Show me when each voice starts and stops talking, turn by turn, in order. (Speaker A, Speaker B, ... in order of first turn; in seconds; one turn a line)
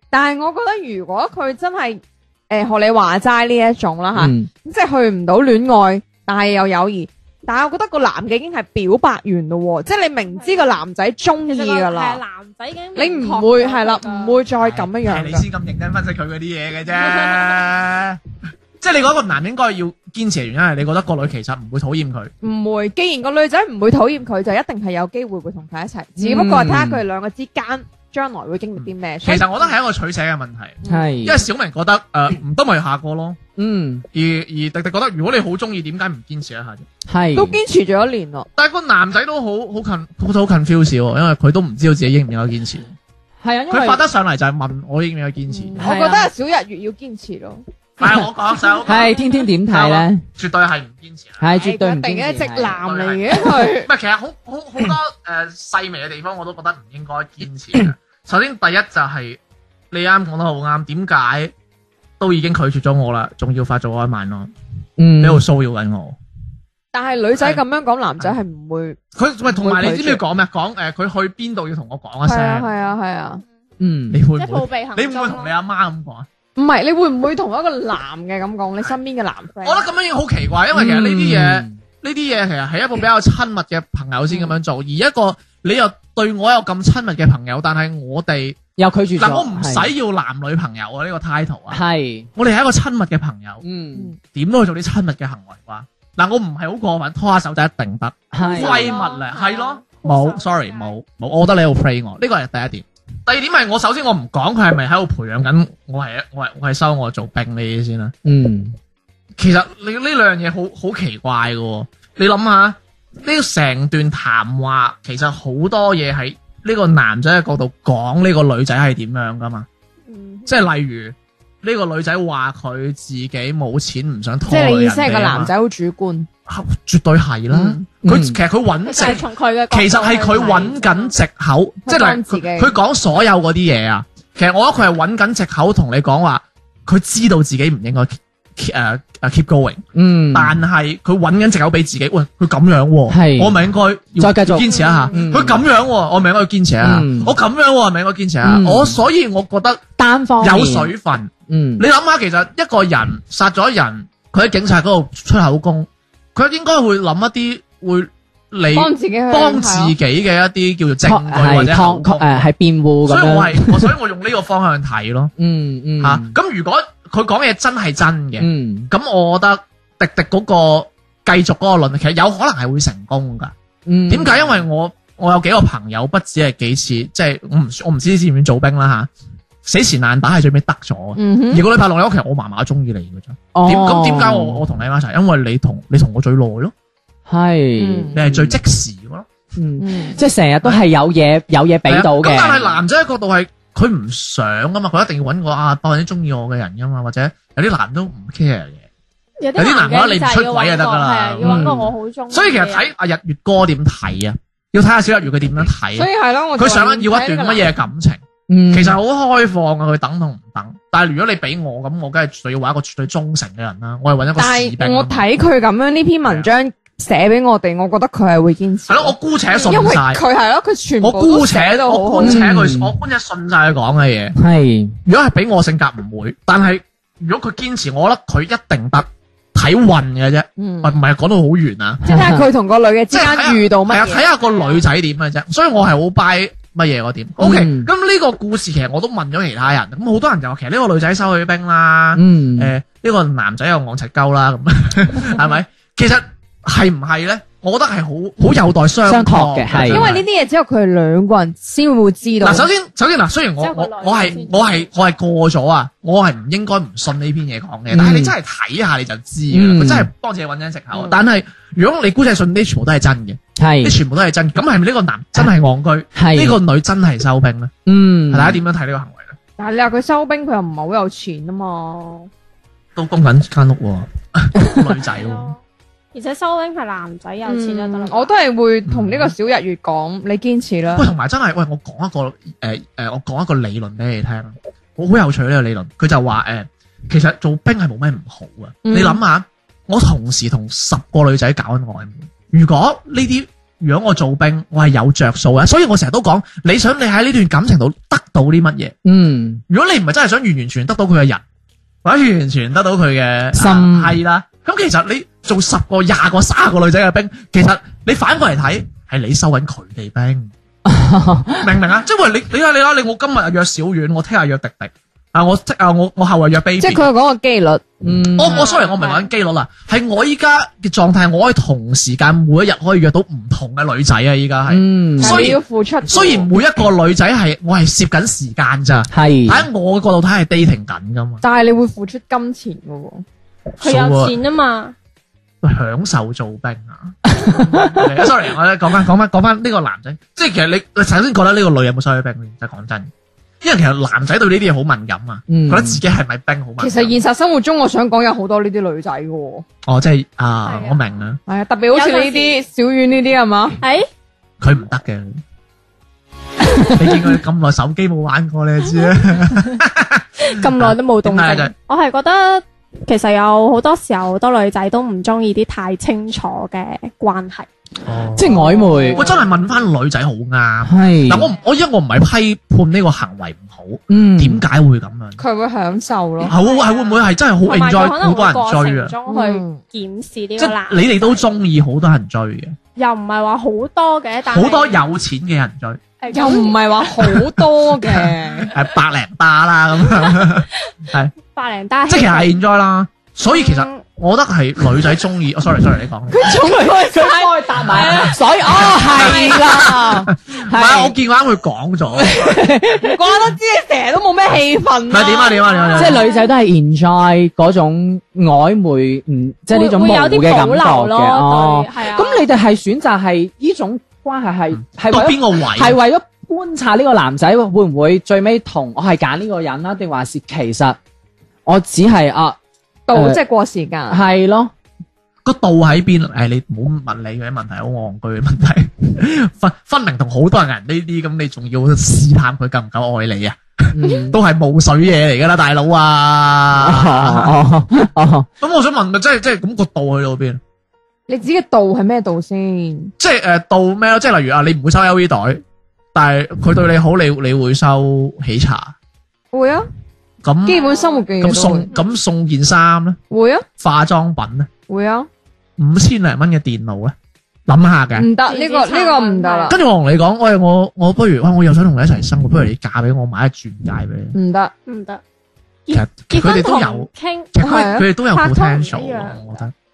Speaker A: 0.1-12.2
Speaker B: 4.2-4.5
Speaker C: 10.3-10.8
Speaker C: 11.5-14.4
Speaker A: 13.0-15.5
Speaker D: 14.6-18.2
Speaker D: 18.8-22.3
Speaker A: 22.4-29.7
Speaker B: 26.2-27.0
Speaker D: 28.8-33.4
Speaker A: 30.8-31.2
Speaker B: 30.9-31.4
Speaker B: 33.6-34.0
Speaker D: 34.1-36.9
Speaker B: 37.1-37.6
Speaker A: 37.4-38.5
Speaker D: 38.6-42.9
Speaker B: 43.4-44.0
Speaker D: 43.7-45.9
Speaker A: 45.5-47.6
Speaker B: 45.8-46.3
Speaker D: 48.0-49.2
Speaker B: 48.8-50.2
Speaker D: 49.7-51.4
Speaker B: 51.4-52.8
Speaker A: 51.5-53.9
Speaker D: 52.8-59.4
Speaker D: 59.9-61.5
Speaker D: 62.2-64.5
Speaker B: 65.0-65.5
Speaker D: 65.2-66.2
Speaker A: 66.9-70.2
Speaker D: 67.4-67.6
Speaker D: 69.2-72.7
Speaker A: 72.2-73.4
Speaker B: 73.8-74.2
Speaker D: 74.1-76.3
Speaker C: 74.4-75.5
Speaker A: 76.6-79.9
Speaker D: 79.6-88.6
Speaker B: 80.7-81.8
Speaker B: 88.8-89.9
Speaker D: 89.2-91.8
Speaker B: 91.7-92.3
Speaker D: 92.3-93.6
Speaker B: 93.6-94.1
Speaker D: 94.3-108.2
Speaker B: 98.3-98.9
Speaker C: 98.4-100.9
Speaker B: 108.2-108.8
Speaker D: 109.4-119.7
Speaker C: 120.1-120.5
Speaker D: 120.5-125.5
Speaker A: 124.5-126.3
Speaker D: 126.5-149.8
Speaker B: 127.5-128.4
Speaker C: 128.8-131.1
Speaker A: 131.9-132.7
Speaker B: 139.9-140.6
Speaker B: 143.1-143.7
Speaker B: 144.2-145.6
Speaker B: 146.8-147.3
Speaker B: 148.4-149.0
Speaker B: 150.0-150.9
Speaker D: 150.4-162.4
Speaker B: 151.5-151.8
Speaker A: 158.7-159.9
Speaker B: 161.0-163.9
Speaker D: 163.1-165.3
Speaker B: 165.4-166.3
Speaker D: 166.0-173.5
Speaker B: 168.4-168.9
Speaker B: 173.9-174.4
Speaker D: 174.1-179.1
Speaker D: 179.7-186.7
Speaker A: 181.2-181.6
Speaker B: 183.5-184.6
Speaker B: 187.3-188.6
Speaker A: 187.8-188.2
Speaker D: 188.1-189.3
Speaker B: 189.6-192.7
Speaker A: 189.8-190.2
Speaker D: 191.9-198.8
Speaker C: 199.4-202.9
Speaker D: 199.6-201.8
Speaker B: 201.4-201.9
Speaker D: 202.3-215.3
Speaker A: 205.9-207.8
Speaker B: 208.5-209.0
Speaker A: 214.4-222.4
Speaker D: 218.9-220.2
Speaker D: 221.0-224.4
Speaker B: 222.2-223.0
Speaker B: 224.4-225.0
Speaker D: 225.1-232.0
Speaker A: 230.6-231.0
Speaker A: 232.1-234.3
Speaker B: 232.1-232.5
Speaker D: 233.1-250.2
Speaker C: 234.4-234.8
Speaker B: 237.4-237.9
Speaker B: 242.2-242.7
Speaker B: 249.1-250.1
Speaker A: 249.9-252.7
Speaker D: 252.4-267.7
Speaker C: 253.6-254.9
Speaker B: 257.9-258.4
Speaker B: 259.5-260.1
Speaker A: 260.9-261.2
Speaker B: 263.6-264.0
Speaker B: 266.2-266.6
Speaker B: 267.9-268.6
Speaker D: 268.3-269.4
Speaker A: 269.6-272.3
Speaker D: 273.0-275.6
Speaker C: 275.1-275.6
Speaker C: 276.1-278.3
Speaker A: 277.4-281.1
Speaker D: 278.9-279.3
Speaker D: 280.9-299.0
Speaker A: 288.9-289.2
Speaker B: 299.1-299.6
Speaker D: 299.7-301.4
Speaker D: 302.0-310.5
Speaker B: 303.5-304.2
Speaker B: 310.9-311.7
Speaker D: 311.6-317.1
Speaker A: 316.8-317.9
Speaker B: 318.0-318.6
Speaker D: 318.4-331.4
Speaker C: 318.5-319.3
Speaker B: 324.7-325.5
Speaker A: 325.2-326.6
Speaker B: 329.1-329.7
Speaker A: 331.4-333.2
Speaker D: 333.7-334.4
Speaker C: 333.8-334.9
Speaker D: 335.6-337.2
Speaker B: 337.3-338.0
Speaker A: 337.6-338.0
Speaker D: 337.9-347.2
Speaker B: 345.5-346.0
Speaker A: 346.8-349.6
Speaker D: 349.9-351.4
Speaker C: 350.7-351.0
Speaker A: 351.5-353.8
Speaker C: 351.9-352.6
Speaker C: 353.8-354.1
Speaker D: 354.6-355.4
Speaker D: 356.9-361.7
Speaker C: 360.4-367.7
Speaker D: 368.1-375.4
Speaker B: 368.4-369.2
Speaker A: 368.6-369.3
Speaker B: 370.9-371.5
Speaker B: 374.1-374.6
Speaker A: 375.4-376.5
Speaker C: 376.4-381.4
Speaker D: 376.5-379.1
Speaker A: 379.3-379.8
Speaker D: 380.6-382.8
Speaker C: 383.0-385.0
Speaker D: 384.5-386.0
Speaker C: 386.2-387.1
Speaker A: 386.3-388.7
Speaker D: 388.7-391.3
Speaker C: 391.5-392.5
Speaker D: 392.1-396.6
Speaker C: 393.5-394.0
Speaker A: 396.3-400.3
Speaker B: 396.4-401.1
Speaker D: 399.2-399.6
Speaker D: 400.3-402.6
Speaker B: 402.2-403.1
Speaker A: 402.9-406.4
Speaker D: 405.1-406.2
Speaker B: 406.0-421.0
Speaker C: 409.7-412.5
Speaker D: 414.8-416.0
Speaker B: 421.7-422.6
Speaker A: 423.1-424.2
Speaker B: 423.1-423.4
Speaker B: 424.1-424.7
Speaker D: 425.4-437.6
Speaker B: 433.9-434.4
Speaker B: 436.8-438.5
Speaker D: 438.6-440.6
Speaker A: 441.3-443.1
Speaker D: 443.2-445.6
Speaker D: 446.1-448.9
Speaker A: 449.5-449.9
Speaker D: 450.4-453.2
Speaker A: 450.7-451.9
Speaker C: 450.8-451.2
Speaker A: 453.3-453.7
Speaker D: 453.8-454.7
Speaker A: 454.9-455.3
Speaker D: 455.8-457.1
Speaker D: 457.7-458.3
Speaker A: 458.2-459.8
Speaker C: 458.4-459.8
Speaker D: 459.7-464.4
Speaker A: 464.3-464.7
Speaker C: 464.9-465.2
Speaker C: 465.9-467.5
Speaker D: 465.9-469.7
Speaker A: 467.6-468.1
Speaker C: 468.3-469.4